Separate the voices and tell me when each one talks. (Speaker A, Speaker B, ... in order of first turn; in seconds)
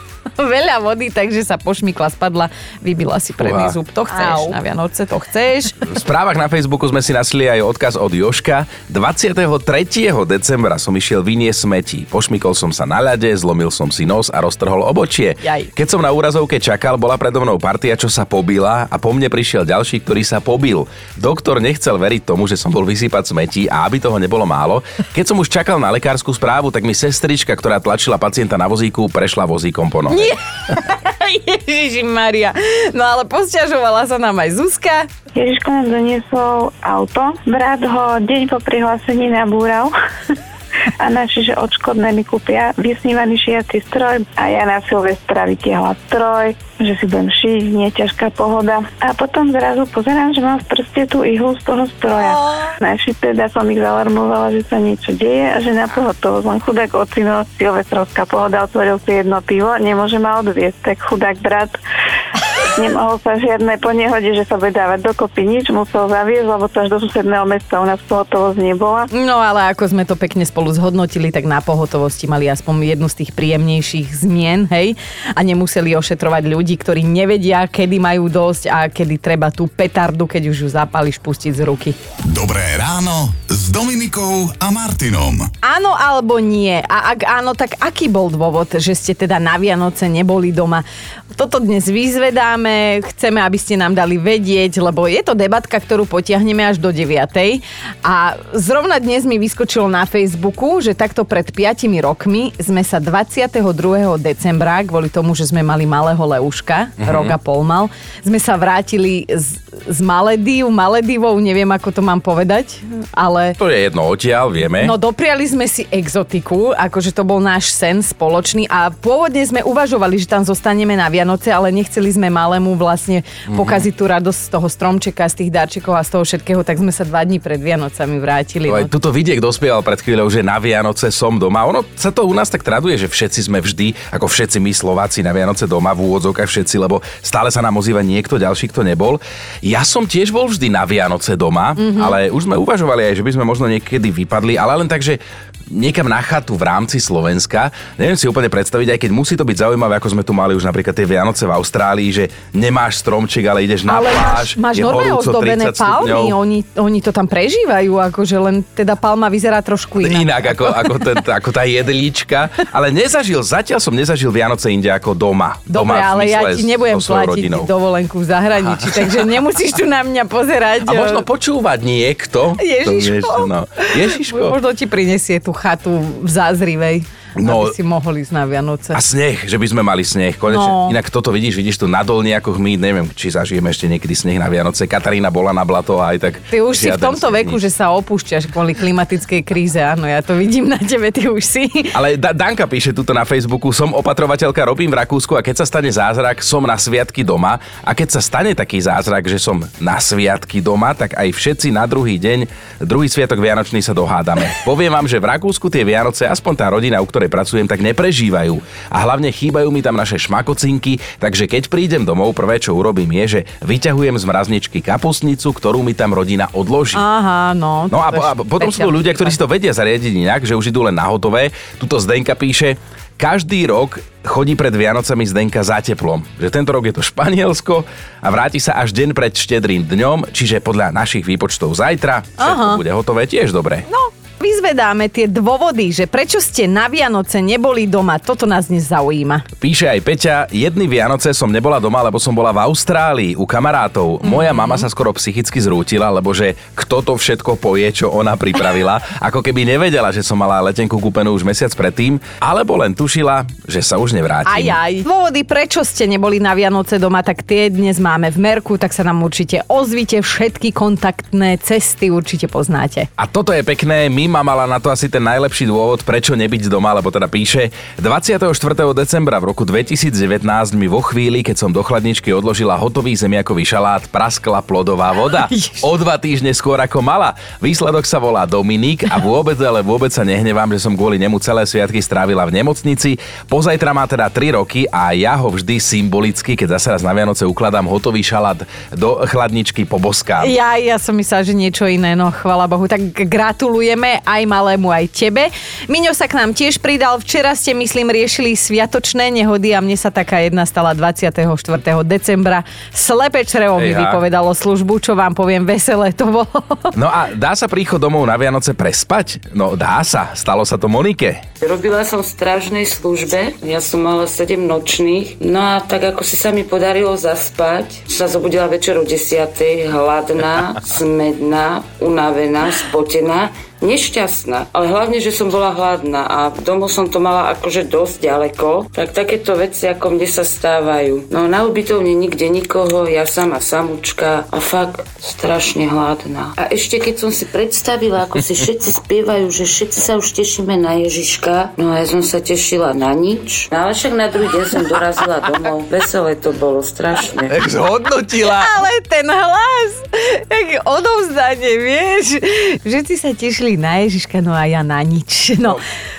Speaker A: 0.4-5.8, 15.4-15.7, 30.1-35.1, 52.2-52.6, 69.1-82.0, 85.6-113.6, 114.8-128.9, 141.8-142.2, 153.9-160.8, 165.7-171.2, 172.6-179.0, 180.5-180.9, 186.5-191.9, 216.9-219.3, 232.4-232.8, 233.9-239.4, 244.2-244.9, 254.5-263.1, 290.4-306.9, 348.4-355.8
Speaker B: 3.4-3.8, 5.9-30.3, 107.0-107.4, 113.6-115.0, 123.5-123.8, 128.7-156.3, 160.0-167.7, 168.6-169.3, 170.8-174.6, 177.4-177.8, 178.9-187.6, 191.9-217.0, 217.9-233.9, 239.6-254.8, 263.2-290.6, 303.8-304.2, 306.9-311.4, 347.5-348.8
Speaker C: 35.4-39.9, 41.0-61.8, 62.7-69.1
Speaker D: 82.2-85.5
Speaker E: 311.6-347.5